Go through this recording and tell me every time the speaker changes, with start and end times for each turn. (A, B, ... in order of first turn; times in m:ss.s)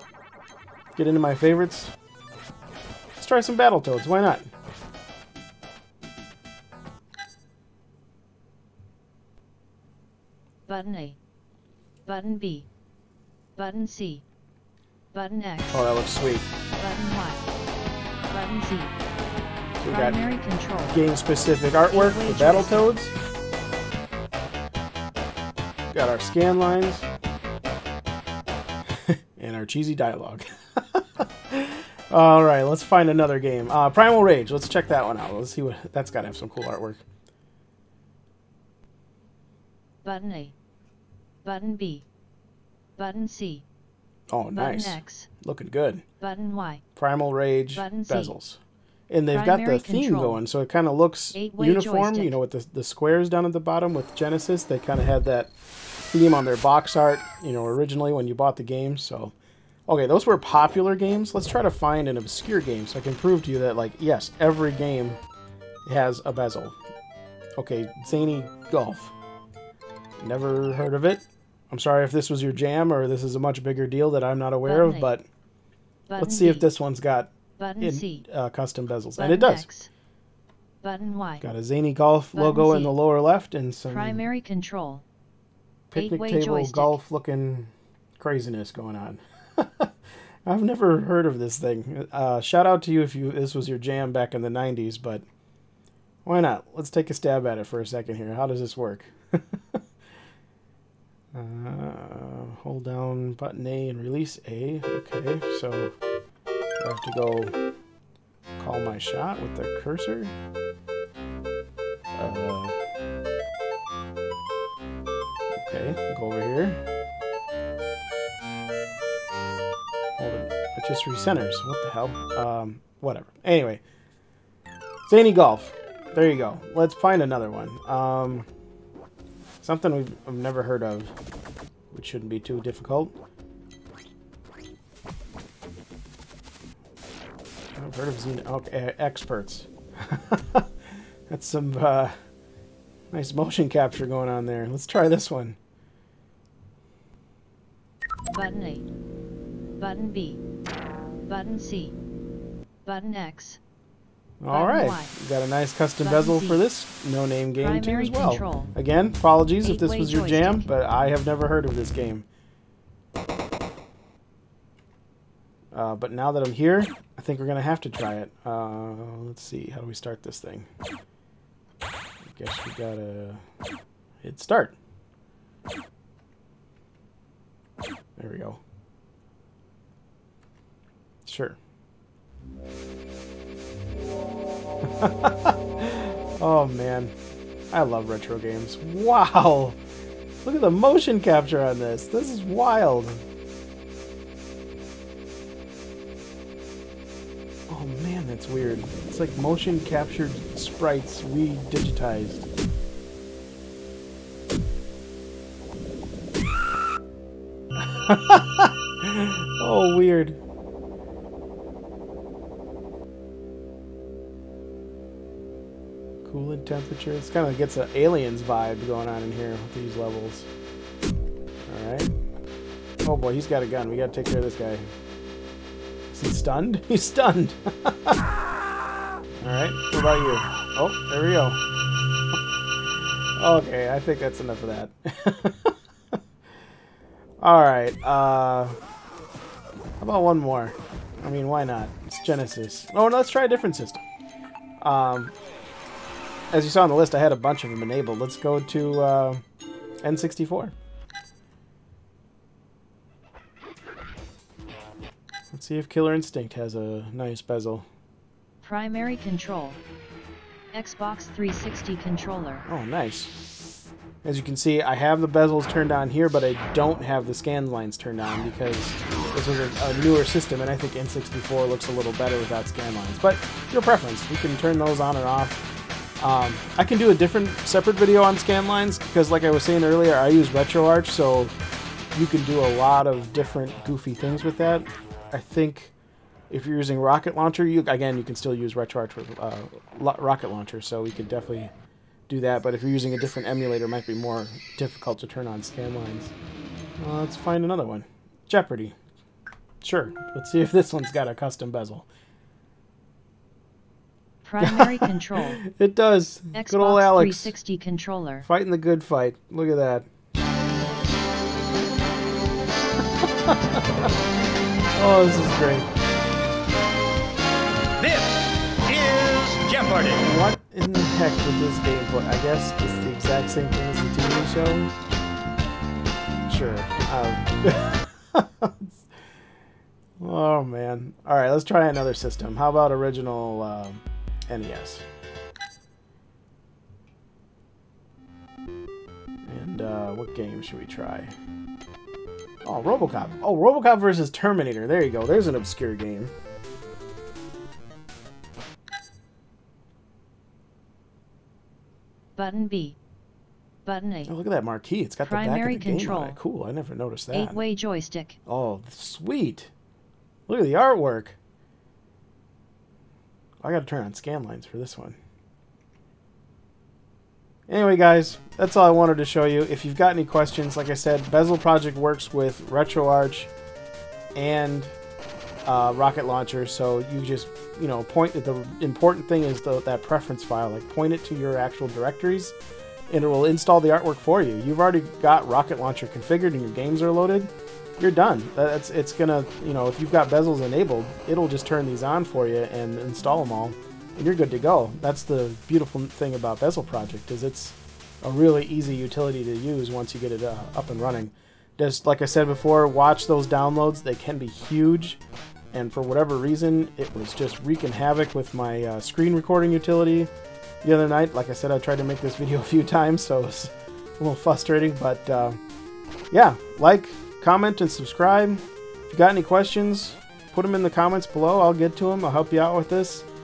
0:01.0-0:01.9 A
0:03.2-0:04.5 A
0:10.7-0:11.2 B
0:12.0-0:12.7 B
0:13.6-0:14.2 B
0:15.1-0:15.8 B
0:15.7-0:16.5 A
0:16.8-0:17.4 B
0:18.3-0:19.0 B
0:19.8-0:20.2 A
0:19.9-0:21.0 B
0:20.9-0:23.1 A
0:21.9-0:22.8 B
0:25.9-0:27.1 A
0:29.0-0:37.0 A
0:40.0-0:40.5 B
0:41.4-0:42.0 B
0:43.0-0:43.6 B
0:44.3-0:46.0 A
0:44.5-0:45.3 B
0:46.2-0:46.8 B
0:47.0-0:48.6 A
0:47.7-0:48.3 B
0:49.1-0:55.5 A
0:49.3-0:50.4 B
0:51.3-0:52.4 B
0:56.1-0:59.3 A
0:59.9-1:05.2 A
1:05.8-1:06.8 A
1:07.6-1:09.1 A
1:10.2-1:15.2 A
1:14.6-1:15.1 B
1:16.1-1:16.7 B
1:16.2-1:19.7 A
1:17.6-1:18.2 B
1:19.2-1:19.9 B
1:20.8-1:21.4 B
1:21.4-1:24.2 A
1:22.3-1:22.9 B
1:23.9-1:25.0 B
1:25.9-1:29.9 A
1:26.0-1:27.0 B
1:30.4-1:35.2 A
1:36.2-1:39.8 A
1:41.3-1:45.9 A
1:46.8-1:47.5 A
1:48.6-1:50.3 A
1:52.2-1:52.8 A
1:55.5-1:56.8 A
2:00.2-2:03.8 A
2:05.0-2:08.5 A
2:09.6-2:11.1 A
2:11.9-2:13.1 A
2:17.7-2:20.7 A
2:21.3-2:22.1 A
2:23.1-2:25.6 A
2:28.3-2:28.8 B
2:29.8-2:30.4 B
2:31.3-2:32.0 B
2:32.8-2:33.6 B
2:34.4-2:42.3 A
2:34.5-2:35.1 B
2:36.0-2:36.6 B
2:37.6-2:38.7 B
2:39.5-2:40.7 B
2:45.7-2:50.7 A
2:52.2-2:53.4 A
2:54.2-2:54.8 A
2:58.2-2:58.6 A
3:01.2-3:01.6 A
3:04.8-3:07.1 A
3:07.7-3:09.8 A
3:10.4-3:13.2 A
3:17.7-3:22.5 A
3:27.8-3:30.4 A
3:36.2-3:40.5 A
3:41.7-3:42.1 A
3:43.0-3:44.9 A
3:46.1-3:48.2 A
3:49.4-3:51.6 A
3:53.4-3:56.2 A
3:57.4-3:58.8 A
4:00.0-4:04.0 A
4:04.8-4:05.3 A
4:06.5-4:09.4 A
4:10.0-4:10.7 A
4:15.5-4:17.8 A
4:18.6-4:19.8 B
4:20.7-4:22.6 B
4:22.7-4:23.3 A
4:24.2-4:35.6 A
4:36.2-4:41.5 A
4:42.1-4:45.9 A
4:46.5-4:51.7 A
4:52.3-4:56.3 A
4:57.0-4:59.0 A
4:59.8-5:02.0 A
5:04.4-5:05.6 B
5:04.6-5:07.5 A
5:06.5-5:08.5 B
5:08.4-5:10.1 A
5:13.2-5:13.8 A
5:15.0-5:15.9 A
5:18.0-5:20.1 C
5:20.0-5:24.9 A
5:26.5-5:29.0 A
5:30.2-5:35.0 A
5:39.4-5:41.3 A
5:42.6-5:46.3 A
5:52.4-5:53.0 B
5:53.8-5:54.3 B
5:54.3-5:57.6 A
5:55.2-5:56.4 B
5:57.3-5:58.4 B
5:58.4-5:59.7 A
6:00.5-6:01.4 A
6:03.6-6:05.2 A
6:07.7-6:13.5 A
6:14.3-6:14.9 A
6:15.6-6:22.5 A
6:23.1-6:45.2 A
6:45.7-6:50.3 A
6:50.8-6:55.6 A
6:56.3-7:03.3 A